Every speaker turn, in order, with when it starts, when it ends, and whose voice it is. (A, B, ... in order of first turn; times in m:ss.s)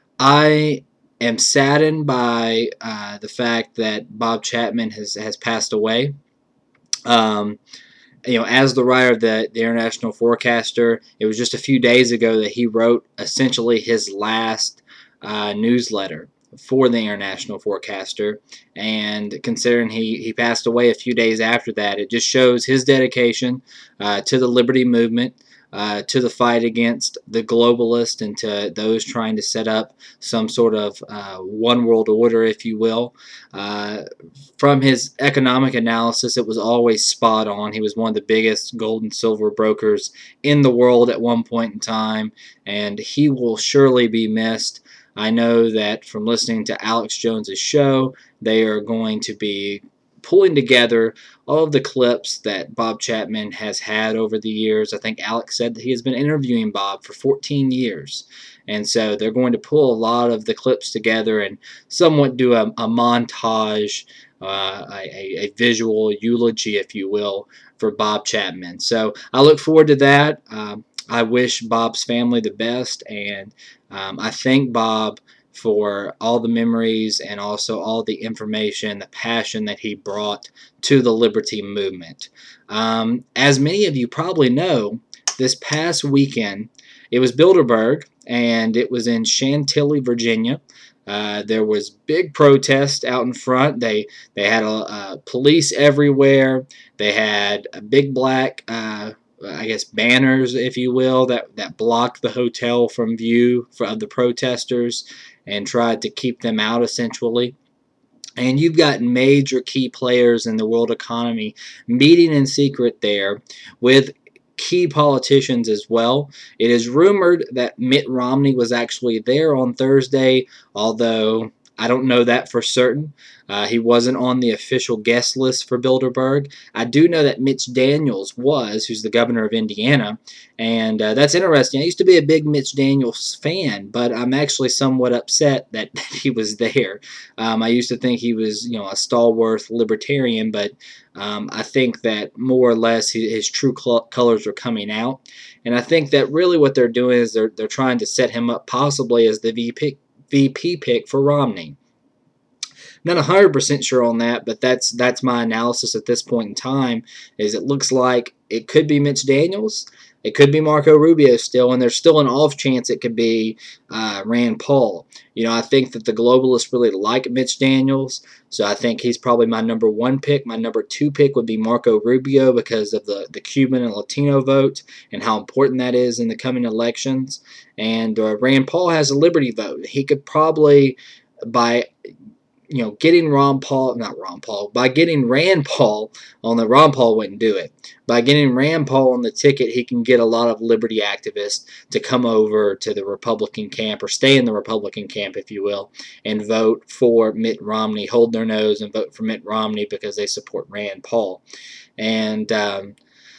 0:00.2-0:06.1 A
0:07.1-0:07.6 A
0:08.3-0:34.0 A
0:34.6-1:47.6 A
1:48.4-2:31.8 A
2:33.0-3:01.9 A
3:02.7-3:21.4 A
3:22.0-3:23.0 A